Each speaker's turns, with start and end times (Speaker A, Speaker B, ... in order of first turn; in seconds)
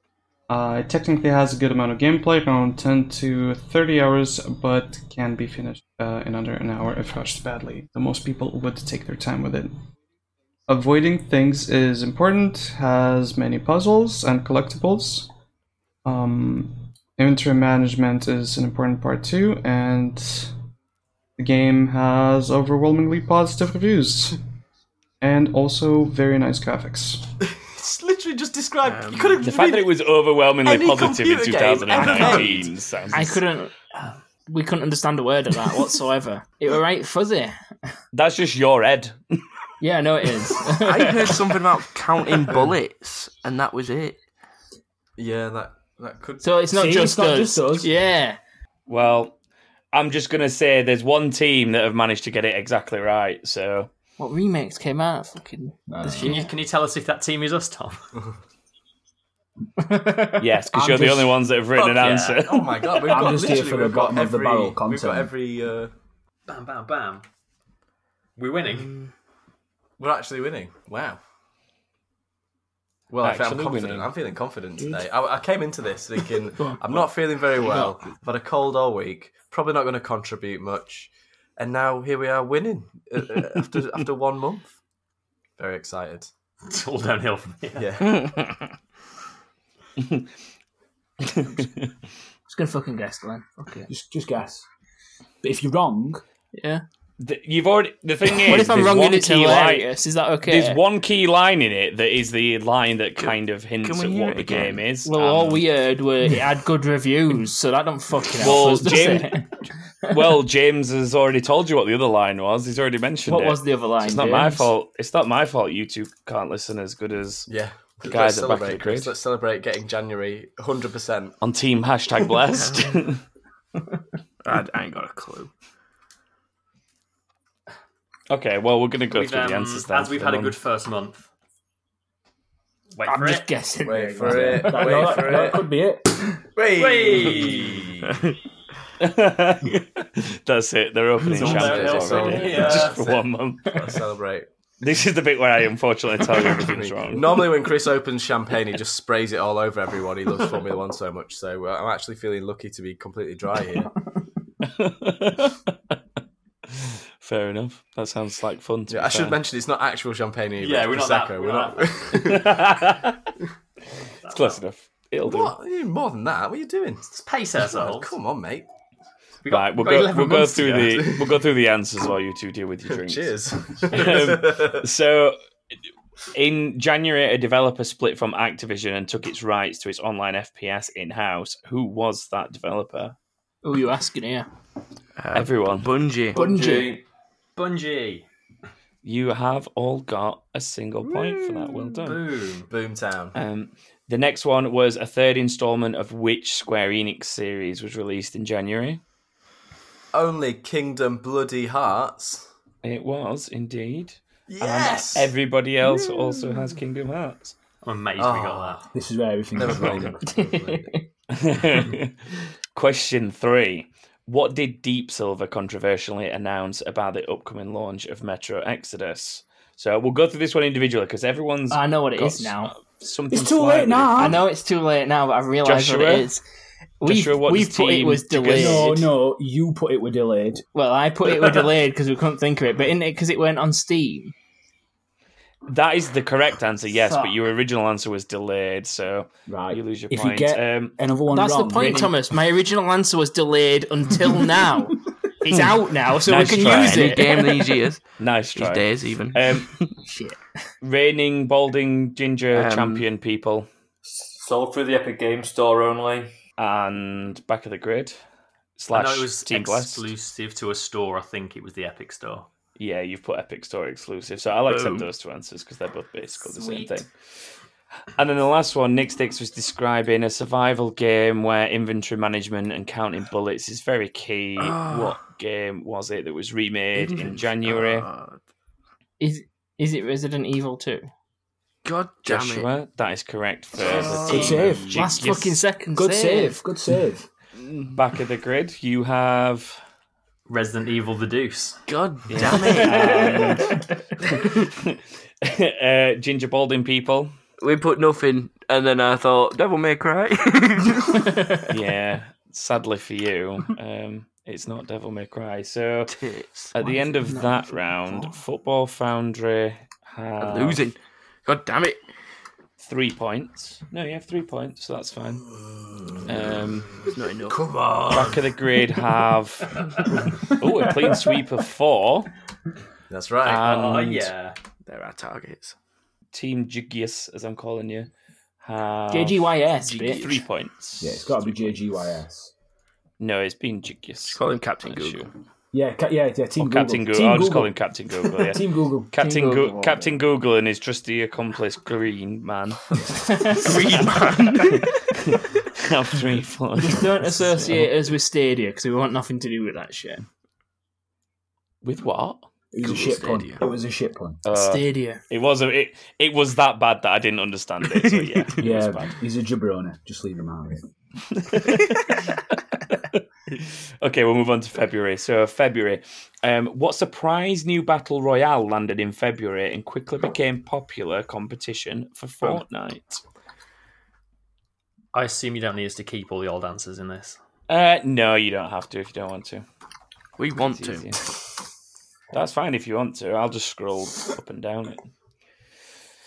Speaker A: 0.5-9.7, 10.7-15.3, 16.1-20.5, 21.4-24.4, 25.2-27.3
Speaker B: 27.4-32.7, 45.2-46.5, 61.8-65.9, 70.0-71.2, 73.1-84.7, 85.6-86.3, 87.8-88.4, 117.5-121.4, 133.8-135.7, 136.6-138.2, 141.3-144.5, 146.4-153.9, 158.9-162.7, 165.2-168.7, 170.7-171.4, 172.9-174.9, 192.7-193.4, 200.1-202.4, 204.5-205.3, 208.2-208.8, 209.6-210.9, 317.5-318.4, 323.1-323.7
Speaker C: 28.8-29.4, 40.7-44.2, 103.2-104.8, 124.4-125.5, 185.2-186.4, 246.5-249.9, 252.5-253.1, 264.7-265.1, 274.6-275.2, 276.9-278.4, 281.9-282.7, 283.8-284.9, 287.6-288.0, 291.9-293.6, 297.6-301.3, 306.1-306.8, 310.4-312.0, 317.1-318.3, 324.9-325.8, 329.8-330.4, 334.3-335.3, 343.5-344.9, 352.8-353.6, 358.0-358.6, 380.4-381.2
Speaker D: 29.4-33.4, 38.1-39.4, 48.9-49.4, 49.9-53.9, 60.4-63.0, 73.2-74.1, 90.0-90.3, 91.2-91.9, 97.2-99.9, 100.4-105.6, 108.4-109.4, 110.1-117.5, 118.0-119.1, 121.4-123.2, 128.3-130.6, 139.0-143.8, 144.8-147.6, 154.6-156.0, 156.7-159.4, 162.2-163.3, 164.3-165.5, 169.5-173.3, 173.9-175.4, 176.3-183.2, 185.3-186.0, 189.0-192.2, 193.3-199.0, 202.8-207.6, 211.3-212.2, 212.8-224.4, 225.6-226.3, 227.0-229.1, 235.7-240.9, 246.1-247.4, 248.2-249.8, 250.8-253.7, 256.6-258.2, 258.8-260.1, 262.8-267.1, 268.2-278.1, 282.2-285.6, 287.9-289.8, 292.3-297.3, 301.7-306.1, 306.7-310.8, 312.8-315.4, 316.3-317.1, 318.1-319.8, 320.4-322.3, 323.4-324.3, 326.3-328.1, 328.6-329.5, 330.1-331.7, 333.2-335.3, 336.6-344.1, 344.7-347.8, 351.8-352.4, 354.4-359.1, 361.3-373.2, 377.7-379.6, 380.6-381.2, 382.3-385.0
Speaker E: 33.1-33.7, 34.5-37.6, 39.8-41.4, 46.4-48.4, 54.2-56.5, 59.8-60.5, 76.6-76.8, 92.5-93.9, 96.5-96.8, 98.3-100.8, 105.0-109.5, 113.3-114.7, 133.0-135.5, 183.6-184.5, 186.4-187.0, 210.2-211.1, 221.7-222.7, 224.2-226.4, 227.0-229.1, 230.7-234.3, 237.0-237.3, 241.3-247.6, 250.1-250.4, 279.2-281.1, 284.9-286.6, 292.8-293.7, 307.3-307.6, 329.1-330.2, 339.2-340.2, 343.3-343.7, 346.8-350.2, 354.5-355.2
Speaker F: 46.7-47.9, 55.9-56.4, 60.7-61.4, 63.0-65.3, 93.9-94.7, 95.4-96.2, 134.2-136.3, 208.9-210.4, 223.3-224.4, 228.5-230.6, 239.5-242.2, 284.3-285.1, 285.9-287.3, 331.0-332.5, 335.7-337.8, 338.4-339.1, 352.7-354.4, 358.6-360.8
Speaker G: 56.1-58.1, 62.0-62.4, 66.5-67.2, 68.4-69.0, 86.7-87.9, 129.1-131.3, 132.9-133.5, 136.7-137.9, 141.2-143.0, 160.6-162.3, 164.2-164.6, 167.1-168.2, 169.4-171.0, 187.6-188.3, 192.0-192.7, 207.8-208.9, 258.9-262.5, 290.5-291.8, 323.5-324.6, 375.1-377.4
Speaker H: 186.4-187.0, 254.3-256.3